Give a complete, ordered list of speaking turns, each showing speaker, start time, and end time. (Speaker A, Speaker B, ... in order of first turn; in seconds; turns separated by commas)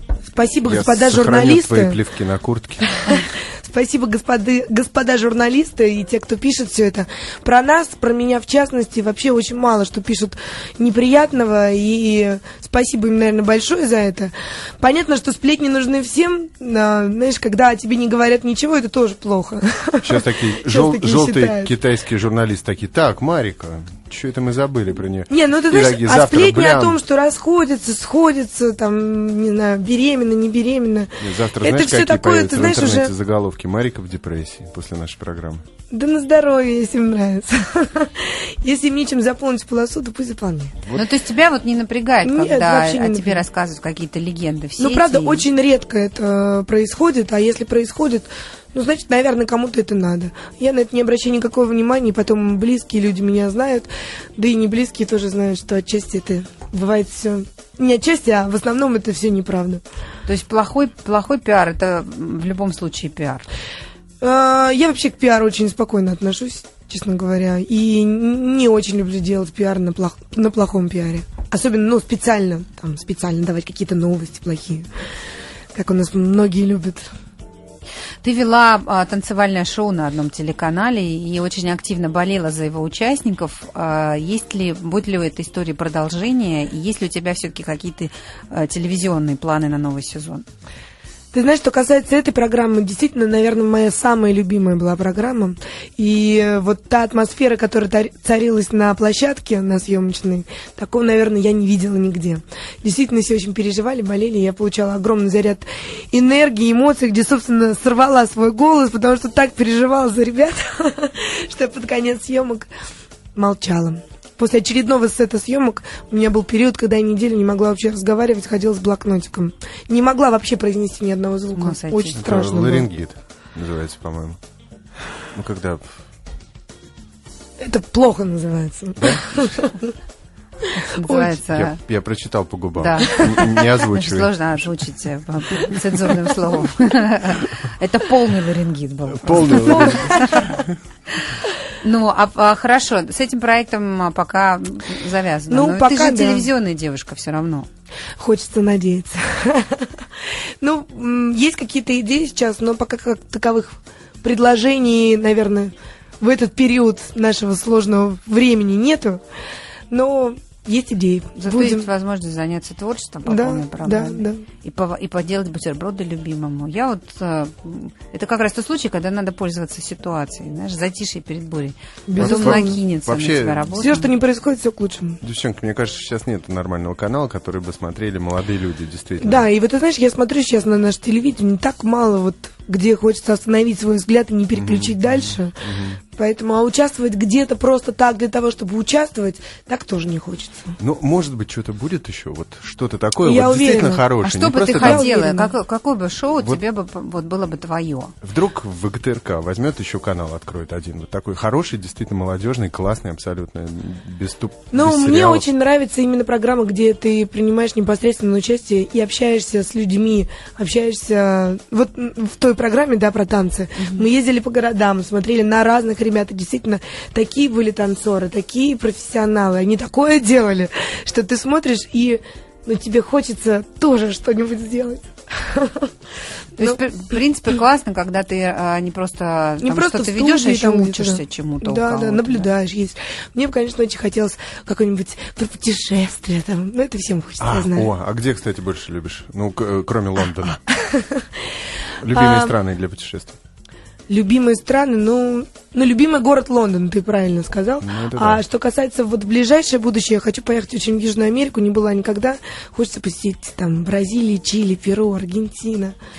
Speaker A: 0.3-2.0, Speaker B: 0.6-3.0, Speaker A: 3.0-21.7, Speaker B: 20.0-27.0, Speaker A: 25.3-33.1, Speaker B: 31.2-35.6, Speaker A: 35.9-40.8, Speaker C: 40.9-45.5, Speaker A: 42.2-43.4, Speaker A: 44.8-59.8, Speaker C: 60.3-63.5, Speaker A: 64.2-74.9, Speaker A: 75.7-77.1, Speaker C: 78.2-90.4, Speaker A: 91.3-112.7, Speaker A: 113.3-122.9, Speaker C: 121.5-122.2, Speaker B: 122.1-124.4, Speaker B: 125.3-125.8, Speaker A: 127.6-129.9, Speaker B: 129.0-129.6, Speaker C: 130.8-131.8, Speaker A: 131.0-131.4, Speaker B: 131.5-134.3, Speaker C: 132.8-140.5, Speaker B: 139.1-140.8, Speaker A: 139.6-140.1, Speaker C: 141.8-147.7, Speaker A: 145.5-146.5, Speaker A: 148.2-149.9, Speaker A: 150.6-159.2, Speaker A: 159.9-161.9, Speaker C: 161.4-174.1, Speaker A: 163.2-164.4, Speaker A: 172.1-172.8, Speaker B: 172.2-173.7, Speaker A: 173.7-175.2, Speaker B: 175.2-179.4, Speaker A: 179.2-185.5, Speaker B: 184.5-186.0, Speaker A: 186.2-190.8, Speaker B: 190.8-195.1, Speaker A: 193.2-194.1, Speaker C: 194.2-198.1, Speaker A: 194.7-195.5, Speaker B: 198.2-205.5, Speaker A: 204.7-225.9, Speaker C: 213.8-214.1, Speaker C: 226.6-232.5, Speaker A: 229.6-237.9, Speaker B: 237.4-240.6, Speaker A: 240.9-241.2, Speaker B: 242.0-243.4, Speaker A: 242.1-242.5, Speaker A: 244.1-255.9, Speaker B: 247.8-248.4